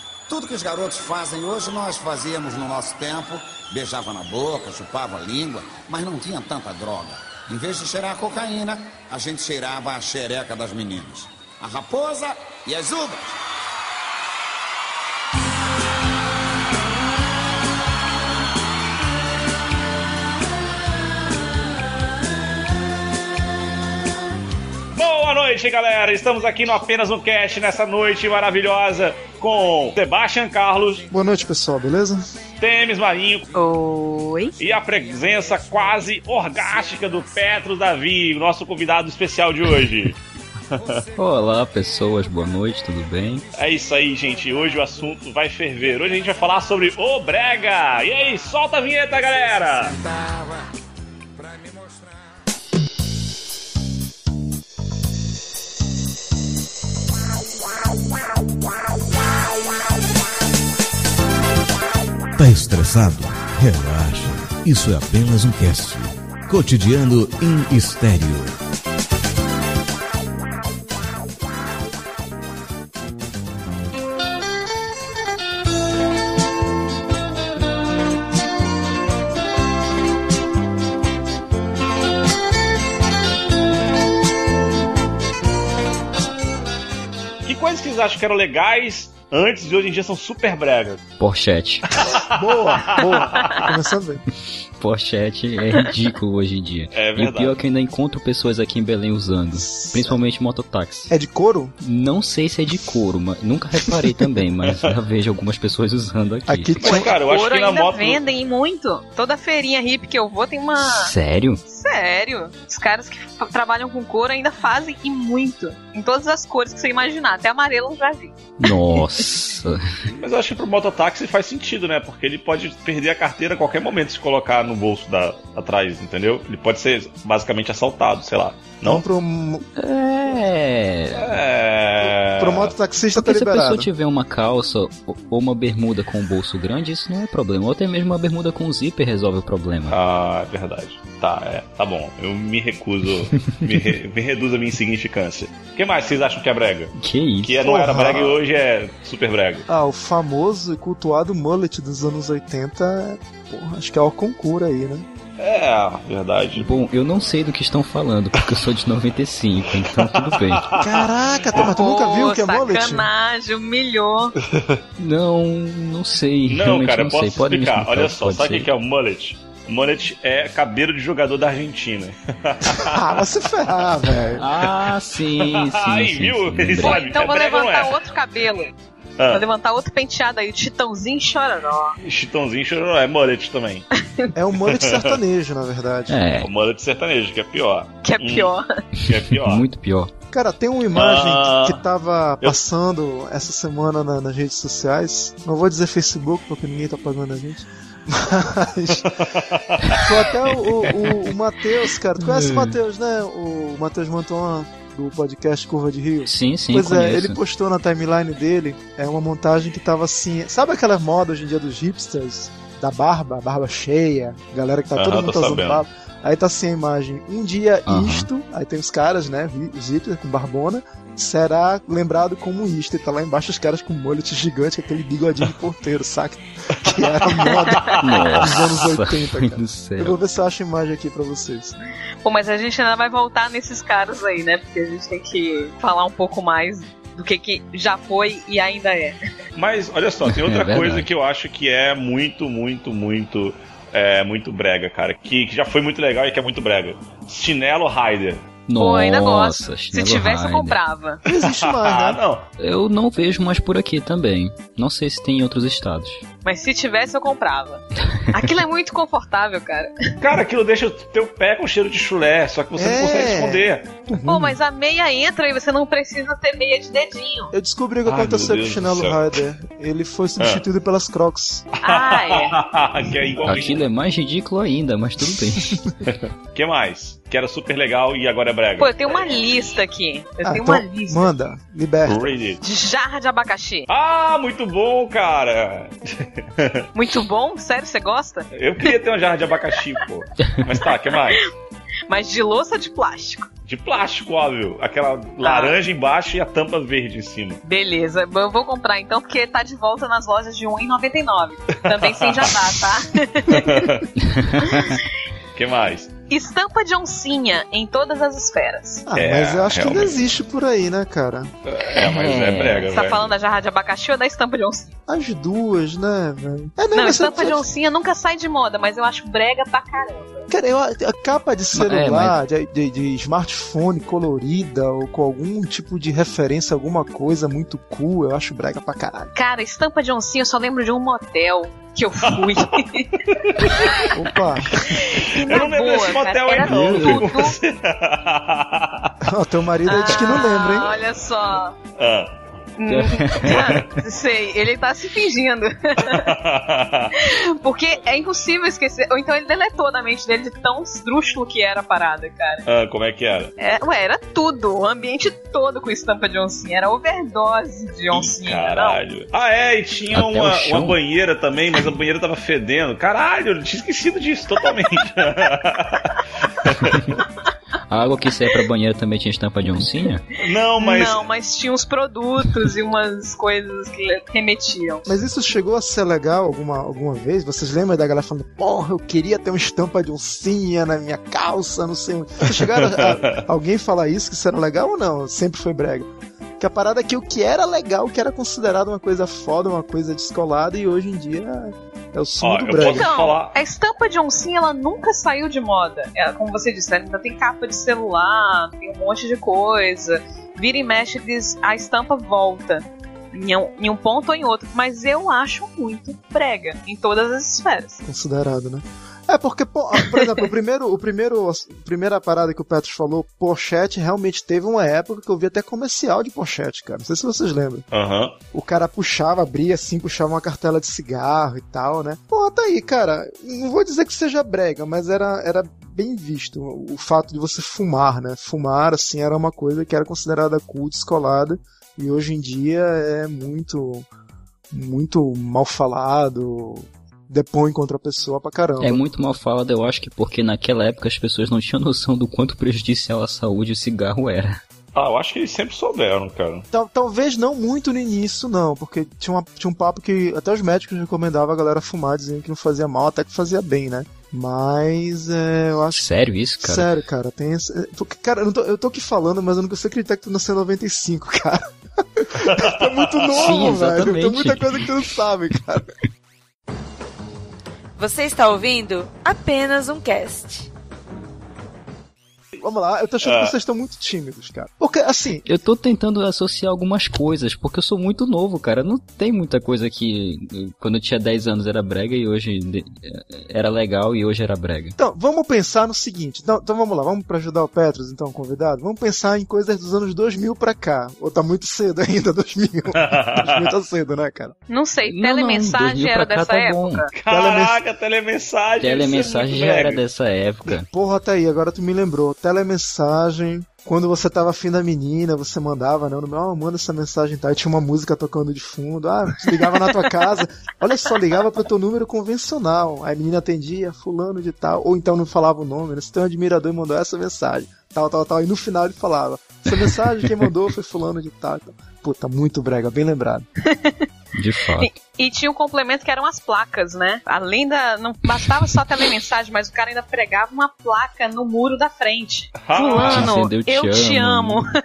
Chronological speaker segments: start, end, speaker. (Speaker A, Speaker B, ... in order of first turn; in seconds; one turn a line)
Speaker A: 0.3-13.4
Speaker B: 24.9-31.1
Speaker C: 31.1-32.2
Speaker B: 32.6-33.5
Speaker D: 33.5-34.5
Speaker B: 34.6-40.2
Speaker B: 40.7-41.0
Speaker E: 41.2-43.5
Speaker B: 43.5-50.0
Speaker A: 49.6-50.7
Speaker A: 51.4-52.1
Speaker F: 62.4-68.6
Speaker B: 87.5-91.0
Speaker E: 91.2-91.9
Speaker B: 92.0-93.7
Speaker C: 92.2-94.2
Speaker E: 94.8-101.1
Speaker B: 96.9-97.6
Speaker C: 99.6-100.2
Speaker C: 101.1-101.8
Speaker E: 101.8-106.8
Speaker C: 103.9-104.2
Speaker B: 104.7-104.9
Speaker C: 106.5-107.1
Speaker B: 106.8-108.2
Speaker D: 106.8-111.1
Speaker E: 110.8-111.6
Speaker D: 111.7-119.0
Speaker E: 118.6-119.8
Speaker B: 120.1-129.0
Speaker C: 128.8-129.7
Speaker E: 129.8-131.4
Speaker B: 131.2-132.8
Speaker C: 132.2-133.9
Speaker E: 133.2-140.0
Speaker B: 139.9-149.7
Speaker E: 143.3-143.7
Speaker E: 147.0-147.6
Speaker C: 147.6-148.4
Speaker C: 149.7-155.1
Speaker B: 155.4-156.7
Speaker E: 156.6-160.7
Speaker B: 159.8-161.0
Speaker C: 160.8-163.1
Speaker D: 161.6-164.4
Speaker B: 164.5-164.8
Speaker E: 165.0-168.7
Speaker B: 166.5-173.2
Speaker C: 172.6-174.5
Speaker E: 174.4-177.0
Speaker B: 175.4-178.0
Speaker D: 176.8-178.7
Speaker B: 179.2-179.4
Speaker D: 179.3-182.0
Speaker B: 182.0-183.9
Speaker D: 184.0-184.3
Speaker C: 184.3-186.2
Speaker B: 184.7-185.2
Speaker E: 186.1-186.5
Speaker B: 186.4-188.5
Speaker D: 188.0-188.7
Speaker E: 189.0-190.1
Speaker B: 189.1-189.7
Speaker C: 190.3-199.1
Speaker B: 190.9-191.8
Speaker B: 199.2-200.1
Speaker C: 199.9-231.8
Speaker E: 202.2-202.8
Speaker E: 206.2-207.4
Speaker B: 214.9-215.8
Speaker E: 217.9-218.3
Speaker B: 227.1-228.3
Speaker E: 228.0-230.2
Speaker D: 232.2-239.2
Speaker B: 239.6-248.5
Speaker E: 240.2-241.1
Speaker E: 248.7-250.8
Speaker D: 248.8-251.2
Speaker C: 251.3-252.2
Speaker B: 251.3-252.5
Speaker E: 252.6-256.2
Speaker D: 256.4-259.9
Speaker E: 258.1-258.5
Speaker B: 260.2-263.9
Speaker C: 262.8-264.6
Speaker D: 264.2-267.5
Speaker C: 267.5-271.6
Speaker B: 268.1-269.3
Speaker B: 270.4-270.6
Speaker B: 271.8-273.8
Speaker D: 271.8-272.6
Speaker E: 273.4-275.8
Speaker B: 276.1-278.9
Speaker D: 278.8-281.3
Speaker C: 280.4-282.3
Speaker B: 282.0-282.6
Speaker D: 282.6-283.9
Speaker B: 283.9-286.9
Speaker D: 286.9-288.9
Speaker B: 288.5-291.4
Speaker D: 292.1-293.5
Speaker B: 293.7-297.6
Speaker D: 295.4-295.8
Speaker D: 297.6-303.9
Speaker B: 301.8-302.8
Speaker B: 303.5-304.1
Speaker E: 304.2-305.0
Speaker D: 304.6-305.1
Speaker B: 305.6-306.1
Speaker D: 306.3-309.1
Speaker C: 309.1-311.5
Speaker B: 309.2-310.2
Speaker B: 311.7-313.4
Speaker E: 311.9-312.9
Speaker D: 312.8-314.9
Speaker C: 315.1-317.6
Speaker D: 316.9-320.5
Speaker C: 320.5-329.3
Speaker E: 321.7-322.4
Speaker D: 329.4-334.1
Speaker B: 332.3-332.6
Speaker B: 333.4-334.1
Speaker C: 334.1-334.9
Speaker D: 334.7-337.6
Speaker B: 335.1-339.2
Speaker E: 336.6-337.3
Speaker C: 339.2-341.0
Speaker D: 339.9-341.8
Speaker B: 342.0-342.3
Speaker D: 342.8-346.3
Speaker E: 342.9-343.9
Speaker B: 343.4-343.9
Speaker B: 346.1-347.1
Speaker D: 347.1-352.6
Speaker B: 352.7-353.5
Speaker D: 353.6-359.0
Speaker B: 358.1-367.1
Speaker E: 360.1-361.0
Speaker E: 366.9-367.1
Speaker E: 367.9-370.2
Speaker B: 370.4-371.3
Speaker D: 370.8-375.1
Speaker C: 375.1-393.1
Speaker B: 382.7-383.4
Speaker B: 392.4-393.5
Speaker D: 392.8-408.0
Speaker C: 408.0-417.9
Speaker B: 417.9-418.4
Speaker C: 418.5-434.1
Speaker C: 434.7-439.0
Speaker E: 438.8-444.6
Speaker B: 444.9-446.7
Speaker C: 446.7-456.1
Speaker E: 455.9-456.9
Speaker C: 456.6-465.9
Speaker B: 462.4-463.6
Speaker E: 463.3-464.9
Speaker G: 468.0-470.7
Speaker C: 472.6-475.4
Speaker B: 473.2-473.6
Speaker E: 475.4-484.9
Speaker C: 485.0-494.6
Speaker B: 493.0-493.7
Speaker D: 494.7-497.1
Speaker E: 495.0-497.1
Speaker B: 497.1-500.0
Speaker C: 497.3-497.8
Speaker E: 498.8-500.9
Speaker C: 500.9-523.5
Speaker D: 523.6-524.1
Speaker E: 524.4-525.0
Speaker D: 524.8-534.7
Speaker B: 532.6-533.3
Speaker E: 533.0-534.6